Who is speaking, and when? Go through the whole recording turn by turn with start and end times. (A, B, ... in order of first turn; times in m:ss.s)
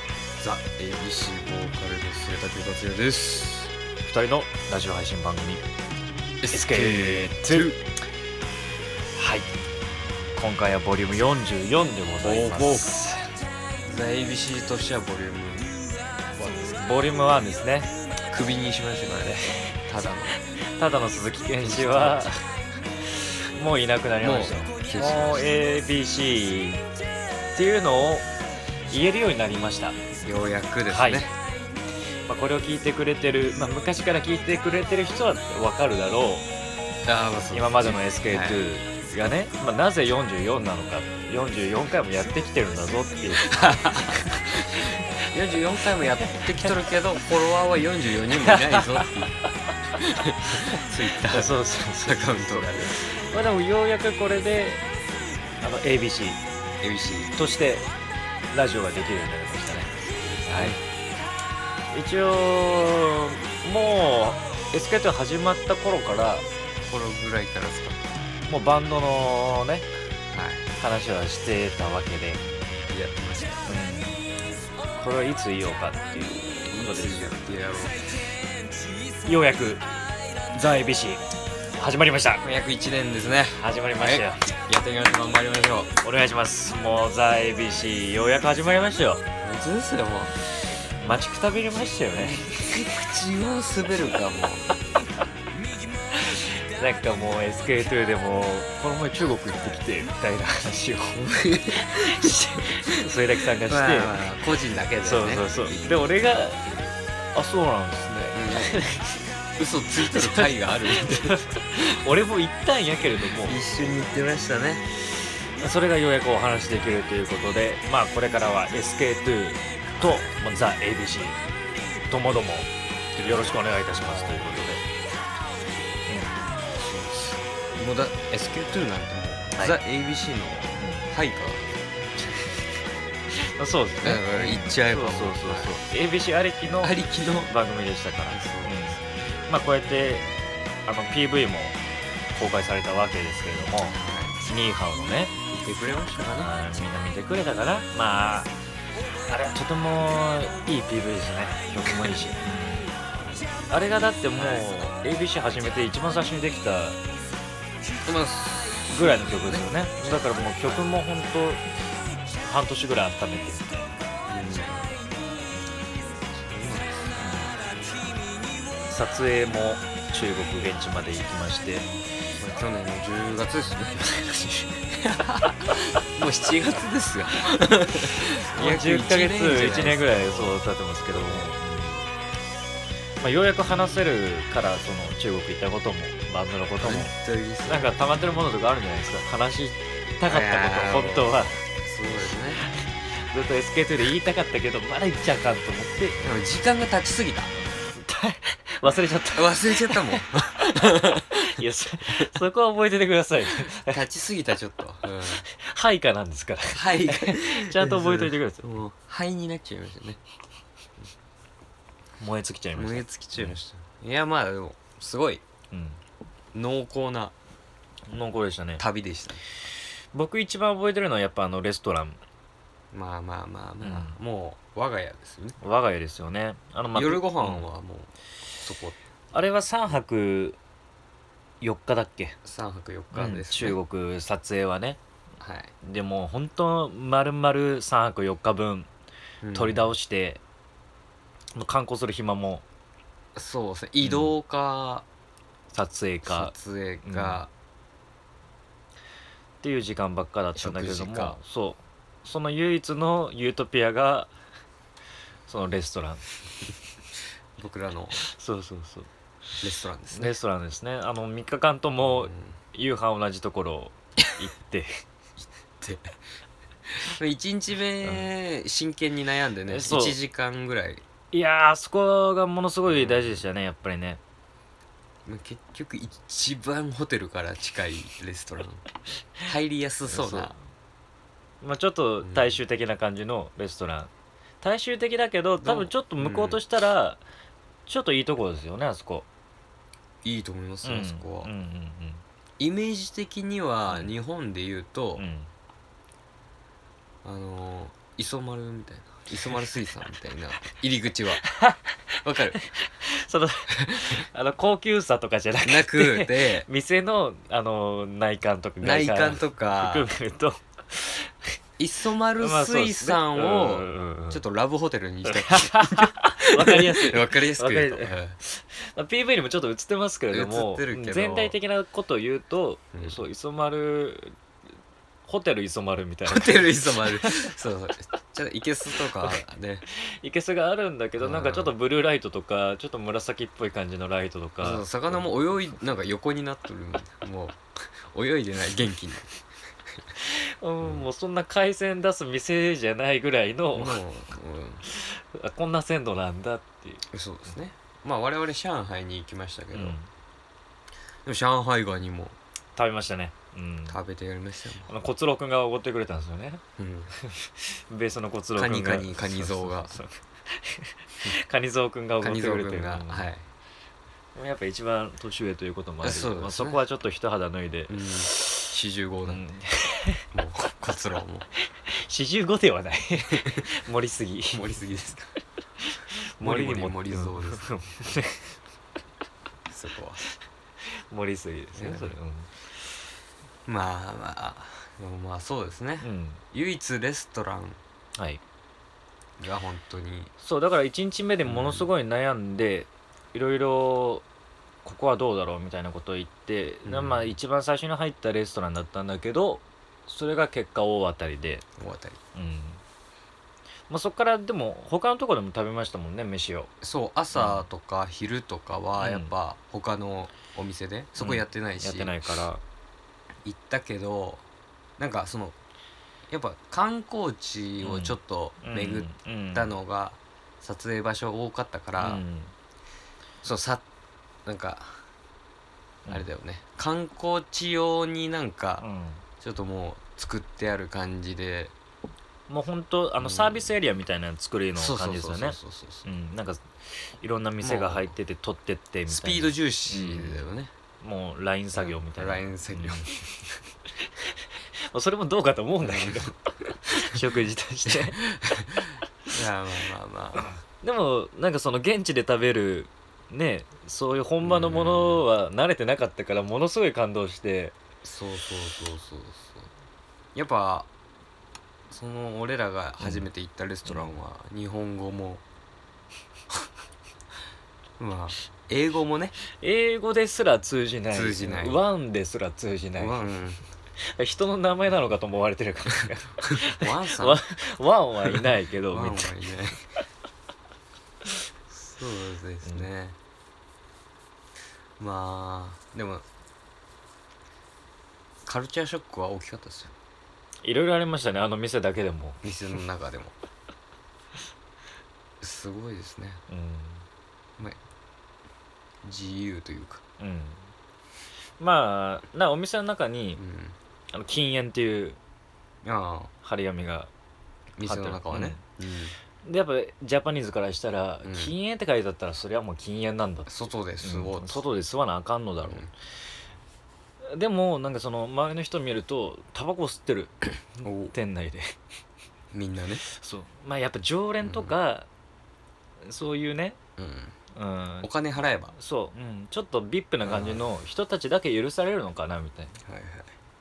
0:00.4-0:03.7 A
0:04.0-0:05.6 B
0:06.4-0:07.8 A
0:06.5-0:07.8 B
0:09.2-0:09.5 B
0:10.3-0:13.2 B
0:12.2-0:13.1 A
0:13.8-0:16.8 A
0:16.7-0:17.9 B
0:18.3-0:20.4 A
0:19.3-0:19.8 B
0:20.8-0:22.4 B
0:21.6-0:22.4 A
0:23.2-0:26.8 B
0:24.2-0:25.6 A
0:27.5-0:28.3 B
0:28.9-0:30.0 B
0:30.2-0:31.3 A
0:30.9-0:31.3 B
0:32.3-0:36.5 B
0:37.0-0:38.7 A
0:37.5-0:45.0 B
0:43.4-0:49.3 A
0:48.4-0:49.1 B
0:50.0-0:53.0 A
0:51.3-0:54.8 B
0:55.6-0:56.4 B
0:56.8-0:57.3 A
0:57.3-0:57.8 B
0:58.5-1:00.8 B
1:00.1-1:00.8 A
1:01.9-1:06.4 B
1:06.8-1:08.0 A
1:08.5-1:09.9 B
1:10.3-1:10.7 A
1:10.8-1:12.4 B
1:12.9-1:13.7 A
1:13.7-1:14.2 B
1:15.0-1:17.4 B
1:16.7-1:18.1 A
1:19.2-1:19.8 B
1:20.5-1:21.2 B
1:21.8-1:22.4 B
1:22.4-1:25.9 A
1:23.6-1:24.5 B
1:26.0-1:29.2 B
1:29.4-1:30.3 A
1:31.0-1:32.7 B
1:32.2-1:34.7 A
1:36.2-1:44.4 B
1:41.4-1:42.9 A
1:43.6-1:46.9 A
1:45.0-1:46.6 B
1:47.3-1:49.2 B
1:48.3-1:48.8 A
1:49.6-1:51.9 A
1:50.1-1:53.6 B
1:53.4-1:54.8 A
1:55.6-2:01.4 B
1:59.9-2:00.4 A
2:02.1-2:04.8 B
2:03.2-2:04.8 A
2:06.1-2:06.3 B
2:06.7-2:11.8 A
2:10.8-2:11.0 B
2:13.5-2:16.9 B
2:14.0-2:15.8 A
2:16.8-2:17.5 A
2:17.4-2:20.2 B
2:18.3-2:19.0 A
2:20.8-2:21.8 B
2:22.3-2:25.3 B
2:23.8-2:24.4 A
2:25.5-2:26.5 A
2:26.4-2:28.5 B
2:29.3-2:32.9 B
2:33.2-2:33.5 A
2:33.7-2:37.0 B
2:34.4-2:34.7 A
2:38.0-2:41.0 A
2:38.9-2:41.6 B
2:42.4-2:43.9 B
2:44.3-2:45.0 A
2:46.5-2:47.1 A
2:47.2-2:47.5 B
2:48.9-2:51.9 B
2:52.4-2:54.0 A
2:53.9-2:54.8 B
2:55.0-3:01.6 A
2:58.5-3:02.0 B
3:03.2-3:07.1 B
3:06.8-3:08.0 A
3:07.7-3:11.6 B
3:10.3-3:12.6 A
3:12.8-3:16.2 B
3:16.2-3:17.5 A
3:17.6-3:20.6 B
3:19.3-3:21.4 A
3:21.3-3:24.0 B
3:23.4-3:25.4 A
3:25.5-3:28.6 B
3:26.7-3:30.2 A
3:32.2-3:33.6 B
3:32.7-3:35.4 A
3:35.7-3:36.0 B
3:36.5-3:37.3 A
3:38.1-3:38.8 B
3:38.8-3:39.4 A
3:40.1-3:42.2 B
3:42.9-3:45.6 A
3:43.8-3:44.2 B
3:45.6-3:47.7 B
3:46.9-3:49.0 A
3:49.3-3:50.6 B
3:51.6-3:52.4 B
3:52.4-3:53.8 A
3:53.1-3:55.0 B
3:55.4-3:55.7 A
3:55.8-3:58.9 B
3:59.4-3:59.9 A
3:59.5-4:00.4 B
4:01.5-4:02.6 B
4:03.3-4:05.0 A
4:04.0-4:04.3 B
4:05.7-4:06.5 B
4:06.2-4:07.5 A
4:07.0-4:07.4 B
4:09.6-4:14.3 B
4:10.6-4:11.4 A
4:15.5-4:16.2 B
4:17.6-4:18.2 A
4:18.2-4:19.1 B
4:19.6-4:20.3 A
4:20.1-4:24.9 B
4:22.0-4:22.6 A
4:27.0-4:31.0 A
4:28.0-4:28.3 B
4:29.7-4:30.2 B
4:31.3-4:34.2 B
4:32.9-4:33.4 A
4:35.2-4:38.8 A
4:39.4-4:40.5 A
4:40.1-4:40.6 B
4:41.6-4:44.1 B
4:42.2-4:42.6 A
4:44.6-4:47.2 B
4:45.6-4:46.6 A
4:47.9-4:49.2 B
4:50.2-4:51.5 A
4:50.8-4:52.2 B
4:52.6-4:55.2 A
4:53.9-4:54.1 B
4:55.2-4:55.5 B
4:57.2-5:01.4 A
5:01.4-5:01.9 B
5:02.2-5:02.6 A
5:02.5-5:11.3 B
5:03.8-5:04.1 A
5:05.6-5:06.7 A
5:08.8-5:10.1 A
5:11.8-5:18.4 A
5:12.4-5:14.4 B
5:15.2-5:24.3 B
5:20.3-5:21.6 A
5:25.2-5:27.4 B
5:26.3-5:29.8 A
5:30.2-5:35.3 B
5:31.2-5:31.7 A
5:34.6-5:37.6 A
5:38.1-5:39.3 A
5:40.2-5:44.0 B
5:40.8-5:41.1 A
5:43.7-5:44.8 A
5:44.8-5:47.0 B
5:47.1-5:50.0 A
5:49.7-5:50.1 B
5:51.2-5:52.4 A
5:52.8-5:54.0 B
5:53.9-5:54.9 A
5:54.9-5:56.6 B
5:56.8-5:57.1 A
5:57.2-6:03.3 B
5:58.6-5:59.9 A
6:02.2-6:03.4 A
6:04.3-6:08.6 B
6:06.0-6:06.8 A
6:07.9-6:09.4 A
6:09.3-6:10.2 B
6:10.3-6:11.4 A
6:12.0-6:14.6 B
6:13.3-6:13.6 A
6:14.5-6:15.3 A
6:15.9-6:18.4 B
6:16.4-6:18.1 A
6:19.7-6:20.2 A
6:21.1-6:22.6 B
6:21.7-6:22.1 A
6:23.6-6:27.8 A
6:26.0-6:26.4 B
6:29.4-6:30.3 A
6:30.4-6:34.2 B
6:31.4-6:31.9 A
6:34.8-6:41.6 B
6:36.8-6:37.3 A
6:41.8-6:42.2 A
6:42.3-6:42.8 B
6:43.9-6:46.7 B
6:46.8-6:52.2 A
6:47.3-6:47.6 B
6:49.0-6:49.3 B
6:51.2-6:52.6 B
6:53.4-6:54.4 A
6:55.0-6:55.6 A
6:56.3-7:02.2 A
6:57.8-6:59.7 B
7:02.0-7:02.5 B
7:03.4-7:03.8 A
7:04.4-7:05.0 A
7:06.1-7:08.8 A
7:08.8-7:09.2 B
7:09.4-7:11.7 A
7:12.5-7:20.5 B
7:13.2-7:13.7 A
7:14.7-7:16.1 A
7:17.6-7:18.1 A
7:19.1-7:20.7 A
7:21.0-7:23.2 B
7:21.7-7:23.3 A
7:24.9-7:26.3 B
7:25.8-7:26.3 A
7:26.8-7:28.2 B
7:27.9-7:30.4 A
7:30.8-7:37.7 B
7:34.4-7:35.2 A
7:38.0-7:39.7 A
7:40.3-7:40.9 A
7:41.9-7:45.4 A
7:43.0-7:43.3 B
7:43.9-7:44.2 B
7:48.0-7:49.4 A
7:49.6-7:53.2 B
7:51.1-7:51.8 A
7:53.0-7:53.6 A
7:54.1-7:59.4 B
7:56.6-7:57.4 A
7:58.9-7:59.8 A
8:01.7-8:03.2 A
8:05.0-8:06.2 A
8:08.4-8:09.9 A
8:10.6-8:12.4 B
8:12.4-8:13.3 A
8:15.4-8:16.4 A
8:16.5-8:17.0 B
8:19.0-8:20.0 A
8:20.2-8:20.7 B
8:21.6-8:23.4 B
8:23.4-8:23.8 A
8:24.1-8:25.2 B
8:25.8-8:26.3 A
8:26.4-8:27.1 B
8:27.8-8:29.1 A
8:27.8-8:28.6 B
8:29.4-8:33.5 B
8:31.2-8:31.5 A
8:33.5-8:34.7 A
8:34.0-8:35.8 B
8:35.6-8:35.9 A
8:37.2-8:41.7 B
8:40.8-8:41.1 A
8:42.5-8:43.0 A
8:43.1-8:45.1 B
8:44.4-8:44.7 A
8:46.0-8:46.8 B
8:47.0-8:47.3 A
8:47.5-8:48.1 B
8:48.0-8:48.7 A
8:48.7-8:52.8 B
8:50.2-8:50.6 A
8:52.8-8:53.3 A